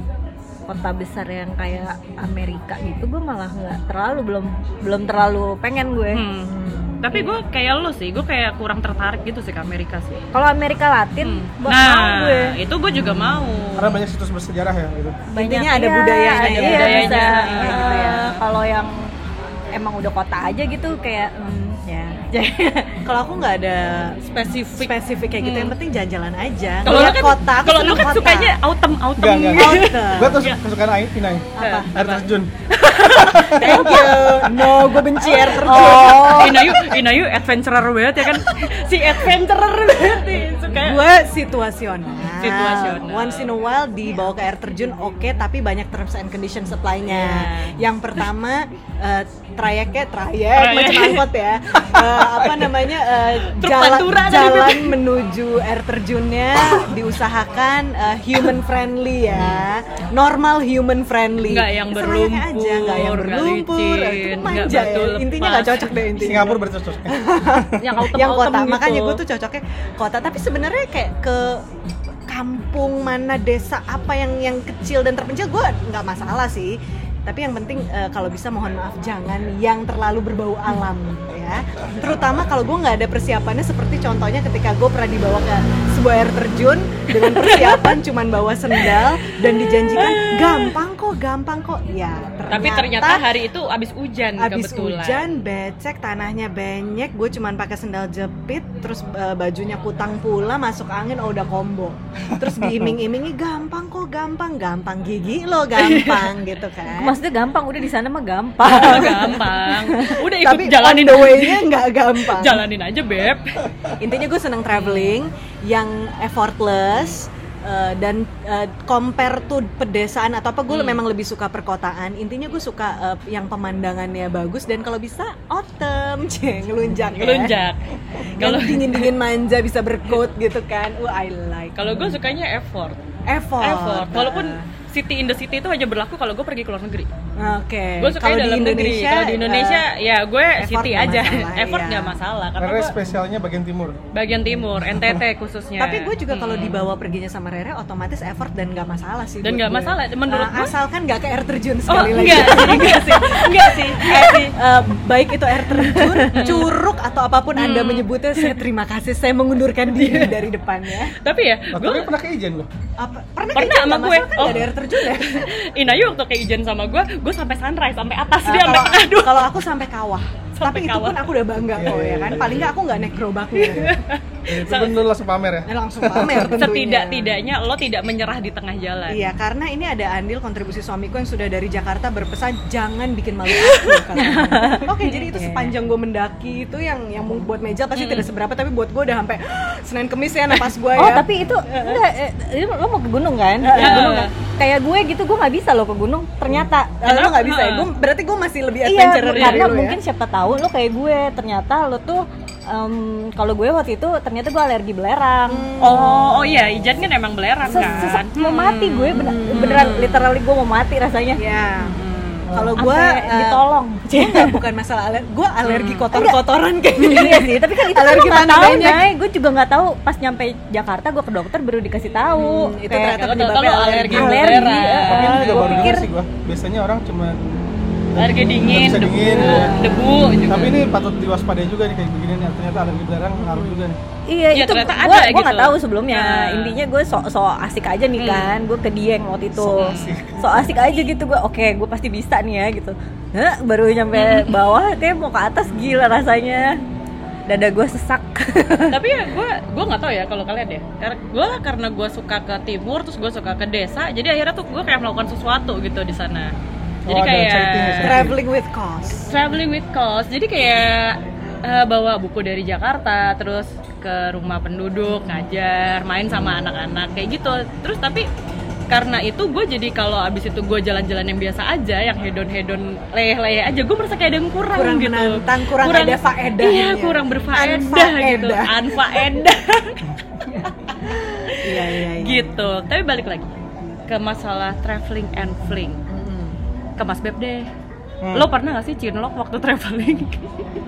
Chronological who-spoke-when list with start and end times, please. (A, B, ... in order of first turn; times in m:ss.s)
0:00.7-0:06.2 A
0:06.1-0:10.2 B
0:06.5-0:07.0 C
0:10.3-0:12.6 A
0:11.2-0:14.0 B
0:13.8-0:15.2 D
0:15.3-0:19.1 A
0:15.3-0:18.3 C
0:16.4-0:18.4 B
0:19.7-0:23.0 A
0:23.0-0:24.2 C
0:24.2-0:25.7 B
0:24.7-0:28.6 C
0:26.8-0:30.6 B
0:29.2-0:32.5 D
0:29.5-0:30.5 C
0:31.6-0:31.9 C
0:31.6-0:41.0 B
0:33.0-0:34.1 D
0:33.4-0:36.8 C
0:35.6-0:36.6 A
0:40.0-1:11.7 C
0:42.4-0:43.5 B
0:47.1-0:47.8 B
0:50.5-0:51.2 B
0:51.8-0:52.7 D
0:53.5-0:55.0 B
0:59.3-0:59.6 B
1:01.4-1:05.9 B
1:06.2-1:07.8 D
1:07.8-1:09.2 B
1:12.3-1:33.3 C
1:27.1-1:28.0 B
1:29.6-1:30.7 B
1:32.5-1:35.3 B
1:34.4-1:47.2 C
1:42.3-1:42.9 D
1:45.8-1:46.3 B
1:46.9-1:49.4 A
1:48.6-1:53.6 B
1:48.9-1:52.6 C
1:54.0-2:07.6 C
1:54.7-1:55.2 B
2:00.7-2:01.0 B
2:07.1-2:09.1 B
2:08.2-2:12.0 C
2:11.8-2:13.0 B
2:13.3-2:14.6 C
2:13.6-2:17.1 B
2:17.4-2:19.8 C
2:18.0-2:23.0 B
2:20.6-2:22.2 C
2:22.6-2:24.0 D
2:24.1-2:26.9 B
2:25.8-2:41.1 C
2:29.4-2:30.7 B
2:31.9-2:34.6 B
2:36.3-2:36.7 B
2:37.6-2:38.6 B
2:39.9-2:40.4 B
2:41.1-2:42.1 B
2:41.7-2:42.7 D
2:43.0-2:45.5 C
2:43.5-2:49.5 B
2:48.4-2:54.0 C
2:50.6-2:51.2 B
2:51.7-2:52.7 D
2:53.6-2:55.0 B
2:54.5-2:56.6 D
2:55.7-2:57.4 C
2:56.4-2:59.3 B
2:59.1-3:12.0 C
3:03.6-3:04.6 B
3:04.1-3:05.7 A
3:08.0-3:08.3 B
3:10.9-3:17.0 A
3:13.6-3:14.2 C
3:13.7-3:14.3 B
3:16.5-3:20.0 C
3:17.0-3:17.9 B
3:18.8-3:25.9 A
3:19.3-3:19.7 B
3:25.5-3:26.6 C
3:25.8-3:30.1 B
3:27.6-3:31.4 A
3:27.7-3:28.2 C
3:29.1-3:30.3 C
3:31.4-3:32.0 C
3:31.8-3:32.5 B
3:32.5-3:32.8 D
3:32.5-3:39.1 C
3:32.8-3:34.6 A
3:35.6-3:36.1 B
3:36.1-3:36.4 A
3:37.0-3:43.2 A
3:42.3-3:44.6 C
3:43.2-3:45.9 B
3:44.1-3:46.1 A
3:45.0-3:49.8 D
3:48.2-3:50.8 B
3:49.6-3:50.0 A
3:50.5-3:54.0 D
3:54.3-4:06.8 A
3:54.5-3:56.8 B
3:58.2-3:58.5 B
3:59.5-4:00.6 D
3:59.7-4:00.2 B
4:04.1-4:04.6 B
4:07.5-4:09.0 A
4:08.9-4:16.5 B
4:17.0-4:18.4 D
4:17.1-4:18.2 B
4:18.0-4:19.3 C
4:19.2-4:28.3 B
4:28.9-4:43.5 B
4:34.7-4:39.4 C
4:41.0-4:42.6 C
4:44.1-4:46.0 B
4:46.1-4:46.6 C
4:47.0-4:47.7 B
4:48.2-4:48.5 D
4:48.3-4:50.7 B